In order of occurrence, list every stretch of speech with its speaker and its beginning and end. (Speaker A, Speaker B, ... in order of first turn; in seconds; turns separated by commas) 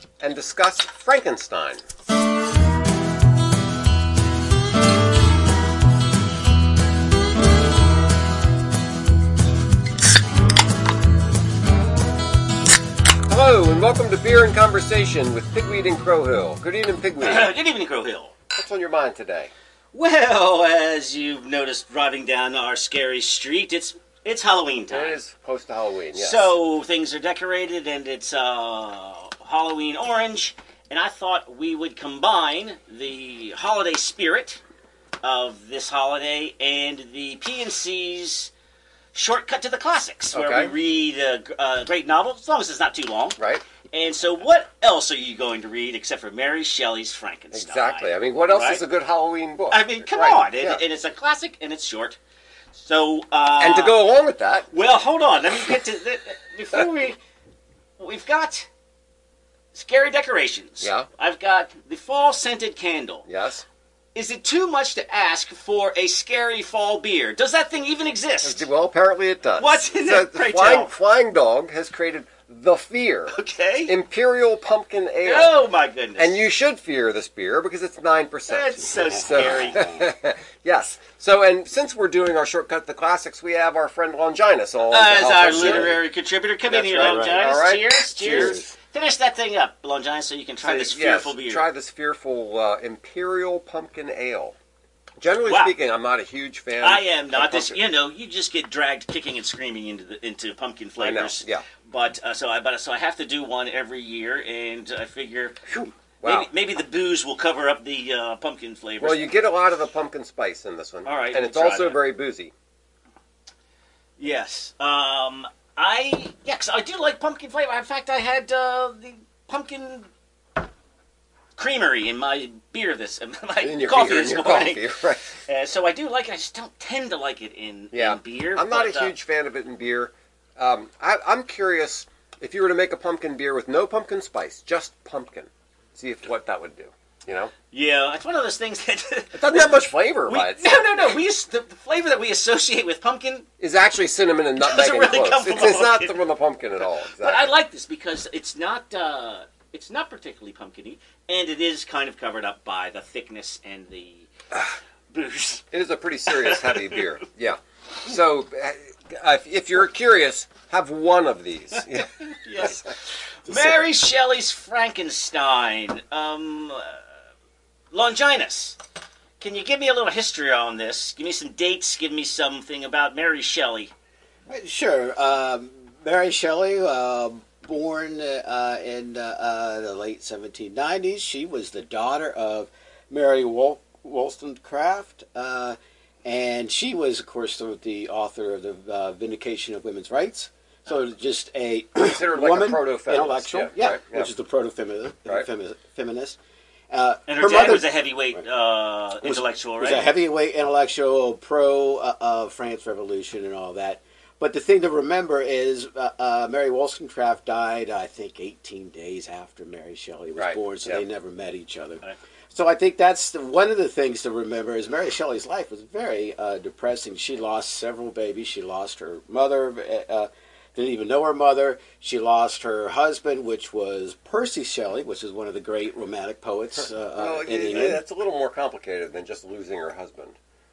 Speaker A: 0.2-1.8, Speaker A: 13.3-17.5, Speaker B: 17.2-18.3, Speaker A: 18.5-19.5, Speaker B: 19.9-25.2, Speaker A: 24.9-26.5, Speaker B: 26.1-34.6, Speaker B: 35.2-38.5, Speaker B: 39.1-43.4, Speaker A: 40.3-40.7, Speaker A: 43.4-43.6, Speaker B: 43.9-48.8, Speaker A: 47.5-50.8, Speaker B: 49.7-52.2, Speaker B: 52.7-54.0, Speaker A: 53.6-54.7, Speaker B: 54.7-57.2, Speaker B: 58.0-58.7, Speaker B: 59.7-63.2, Speaker A: 60.8-61.1, Speaker A: 63.2-63.6, Speaker B: 64.1-68.7, Speaker A: 68.4-75.5, Speaker B: 69.6-70.9, Speaker B: 73.3-73.9, Speaker B: 75.2-76.3, Speaker A: 76.2-86.0, Speaker B: 78.5-79.8, Speaker C: 78.8-80.1, Speaker B: 84.9-91.6, Speaker C: 85.4-86.0, Speaker A: 86.7-88.6, Speaker C: 87.0-87.5, Speaker C: 88.2-88.7, Speaker A: 90.6-94.5, Speaker A: 95.2-97.8, Speaker B: 95.5-95.7, Speaker B: 96.8-109.3, Speaker A: 101.0-101.6, Speaker A: 105.7-106.5, Speaker A: 109.0-112.5, Speaker B: 111.0-112.0, Speaker B: 114.2-120.1, Speaker B: 121.6-129.1, Speaker A: 123.6-125.2, Speaker A: 127.9-137.5, Speaker B: 137.7-143.5, Speaker A: 139.3-140.7, Speaker A: 143.6-147.5, Speaker B: 144.6-146.2, Speaker B: 146.8-154.3, Speaker B: 155.1-155.6, Speaker A: 155.7-162.8, Speaker B: 156.3-157.1, Speaker B: 162.2-162.9, Speaker B: 163.4-167.0, Speaker C: 163.5-163.8, Speaker B: 167.9-168.8, Speaker B: 169.4-173.9, Speaker C: 174.5-196.4, Speaker A: 192.0-194.3, Speaker C: 196.9-198.4, Speaker B: 197.3-200.1, Speaker C: 199.2-228.0, Speaker A: 210.3-211.0, Speaker A: 227.2-230.4